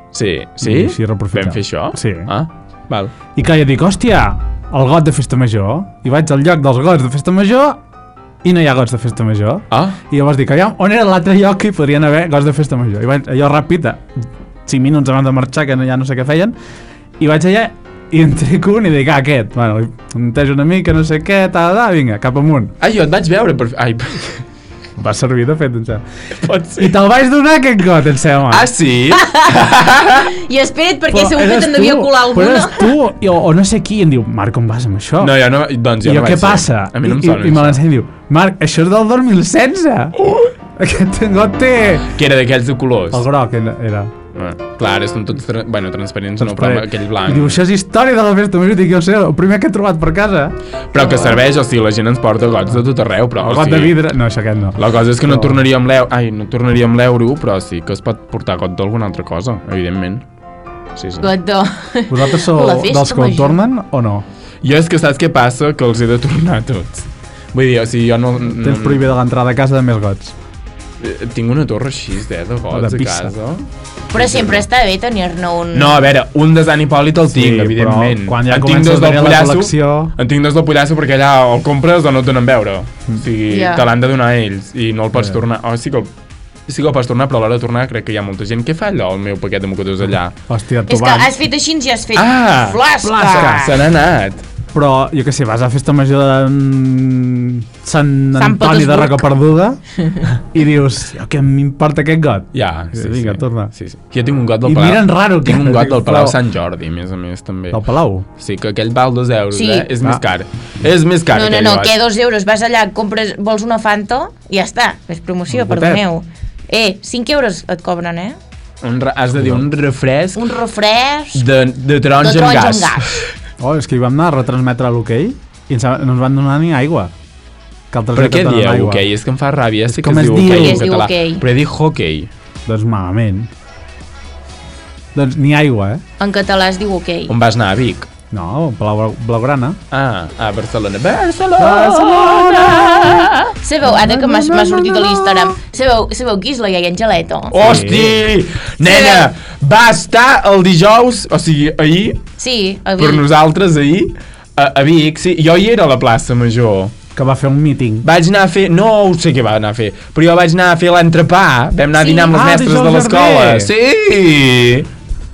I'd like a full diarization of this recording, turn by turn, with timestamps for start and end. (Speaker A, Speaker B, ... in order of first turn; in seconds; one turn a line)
Speaker A: 0.1-3.1
Speaker B: 0.6-2.3
Speaker B: 3.3-7.8
Speaker B: 8.4-16.5
Speaker A: 9.7-10.0
Speaker B: 17.2-22.7
Speaker A: 22.8-24.4
Speaker B: 25.0-26.0
Speaker A: 26.4-26.9
Speaker B: 26.8-28.7
Speaker A: 28.5-30.3
Speaker C: 29.1-32.9
Speaker B: 31.1-35.4
Speaker A: 35.2-37.8
Speaker B: 36.0-40.2
Speaker A: 40.2-40.5
Speaker B: 40.8-42.1
Speaker A: 42.1-43.2
Speaker B: 43.1-44.1
Speaker A: 44.3-47.6
Speaker B: 46.4-50.5
Speaker A: 50.9-54.0
Speaker C: 51.0-51.4
Speaker B: 53.4-55.6
Speaker A: 54.8-60.2
Speaker A: 61.0-61.3
Speaker C: 61.2-63.6
Speaker B: 62.1-64.2
Speaker A: 64.6-69.1
Speaker B: 68.5-70.3
Speaker A: 71.0-74.6
Speaker B: 72.7-73.3
Speaker C: 74.1-76.0
Speaker A: 75.7-86.1
Speaker B: 77.3-80.1
Speaker C: 83.5-83.8
Speaker A: 86.7-90.3
Speaker B: 90.5-91.3
Speaker C: 90.9-93.8
Speaker A: 92.1-94.4
Speaker B: 93.0-93.6
Speaker B: 94.7-99.8
Speaker C: 98.3-99.2
Speaker B: 100.4-103.7
Speaker A: 102.5-107.8
Speaker B: 104.6-106.4
Speaker B: 107.7-108.2
Speaker A: 108.4-111.9
Speaker C: 109.5-109.9
Speaker C: 111.3-118.4
Speaker A: 115.5-116.0
Speaker A: 118.8-120.5
Speaker B: 119.4-119.6
Speaker C: 120.3-121.5
Speaker A: 121.3-123.2
Speaker C: 122.2-123.2
Speaker B: 123.6-127.1
Speaker B: 127.9-129.1
Speaker A: 128.1-132.3
Speaker B: 129.9-130.9
Speaker C: 130.3-131.4
Speaker B: 132.7-133.5
Speaker B: 135.1-136.0
Speaker C: 136.2-137.3
Speaker A: 137.3-138.1
Speaker B: 138.3-139.8
Speaker A: 139.9-143.5
Speaker B: 141.6-142.9
Speaker C: 143.6-147.8
Speaker B: 143.8-145.6
Speaker A: 147.5-152.2
Speaker B: 147.6-148.2
Speaker C: 148.8-149.3
Speaker C: 152.4-153.2
Speaker A: 153.0-156.9
Speaker B: 157.1-158.0
Speaker A: 158.0-164.9
Speaker C: 161.9-162.3
Speaker B: 162.3-163.7